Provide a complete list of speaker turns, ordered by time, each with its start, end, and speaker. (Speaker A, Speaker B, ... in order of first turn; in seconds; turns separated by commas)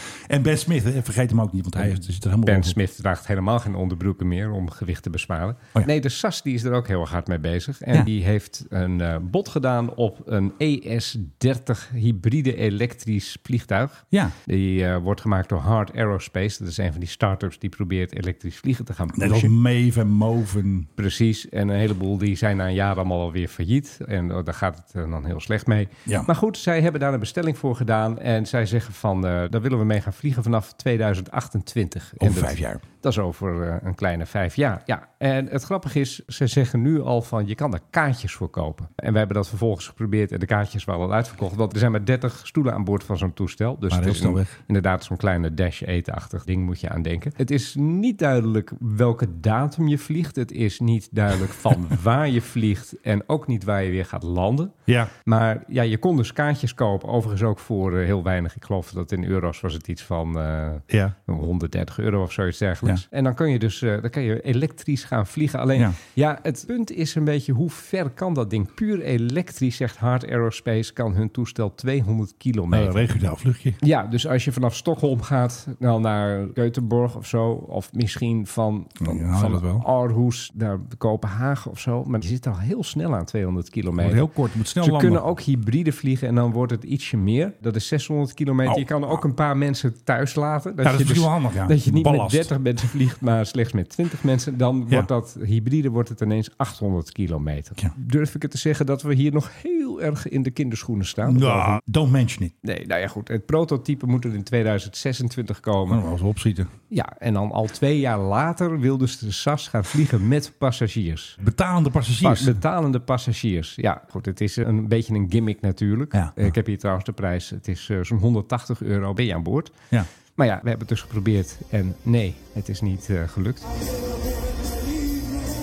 Speaker A: 0.2-2.8, Speaker B: 2.4-19.5, Speaker A: 19.1-20.9, Speaker B: 21.0-54.7, Speaker A: 32.2-32.8, Speaker A: 43.9-44.6, Speaker A: 54.9-55.1, Speaker B: 55.2-73.1, Speaker A: 60.9-61.1, Speaker A: 72.7-73.8, Speaker B: 73.8-84.2, Speaker A: 79.0-79.8, Speaker A: 84.0-85.2, Speaker B: 84.8-101.8, Speaker A: 88.6-89.2, Speaker A: 90.8-92.5, Speaker A: 101.2-102.5, Speaker B: 102.6-106.0, Speaker A: 105.9-106.7, Speaker B: 106.9-111.4, Speaker A: 111.4-112.6, Speaker B: 112.2-119.8, Speaker A: 116.1-116.5, Speaker B: 120.4-123.7